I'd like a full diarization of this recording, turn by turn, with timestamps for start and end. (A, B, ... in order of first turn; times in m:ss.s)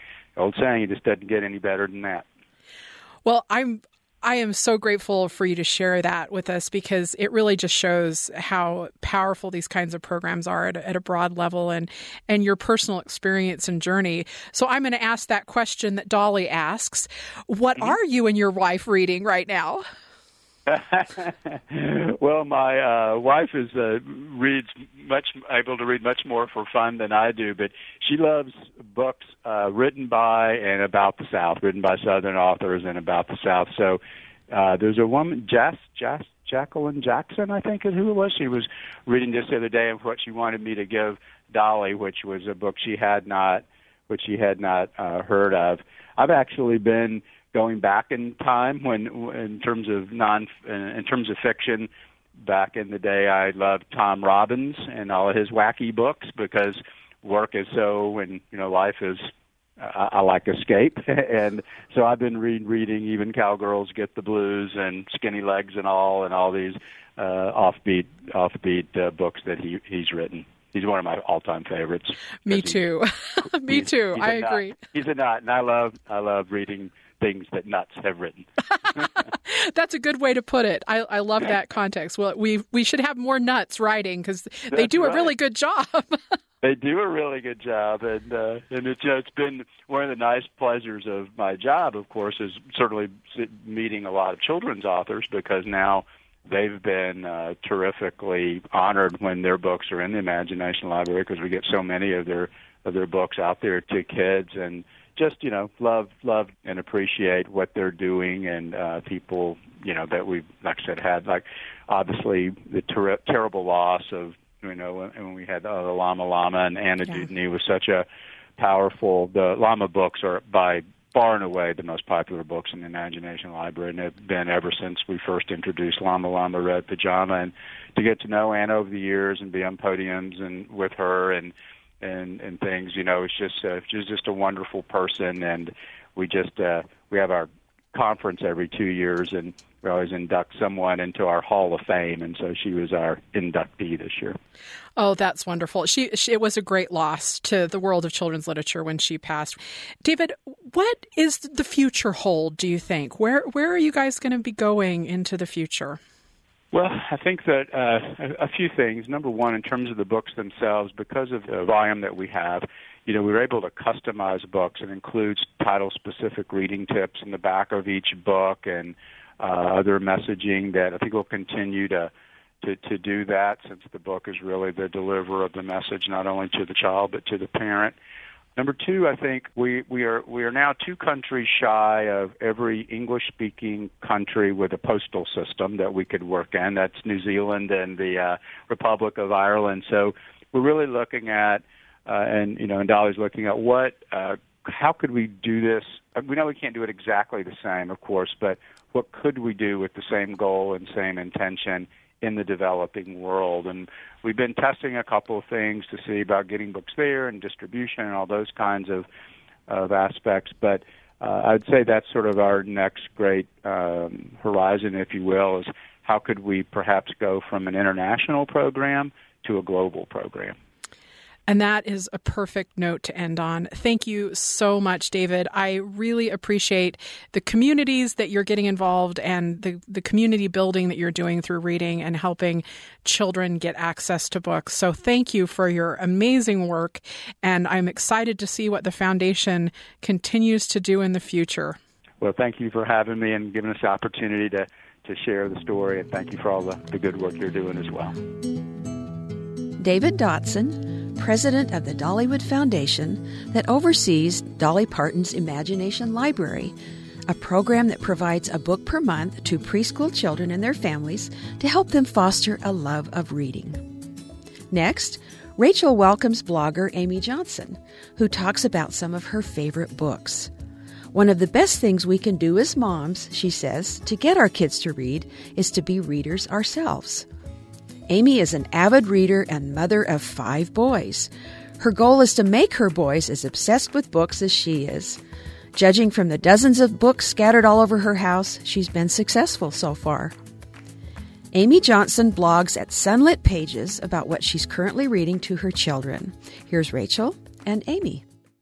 0:00.4-0:02.2 A
0:03.3-0:19.8 B
0:20.7-0:51.9 A
0:52.4-0:59.3 A
0:59.8-1:12.8 A
1:12.5-1:14.8 B
1:13.7-1:19.1 A
1:19.4-1:26.3 B
1:24.7-1:25.3 A
1:26.6-1:58.1 A
1:58.6-2:24.4 A
2:25.0-2:36.0 B
2:36.7-2:52.1 A
2:52.6-2:58.0 A
2:58.6-3:29.1 A
3:29.7-3:40.6 A
3:41.5-4:01.8 B
4:02.2-4:08.2 A
4:09.8-4:16.8 C
4:17.3-4:23.9 C
4:24.7-4:30.5 C
4:31.1-4:37.3 C
4:38.1-4:45.2 C
4:45.8-4:50.4 C
4:51.5-4:58.2 C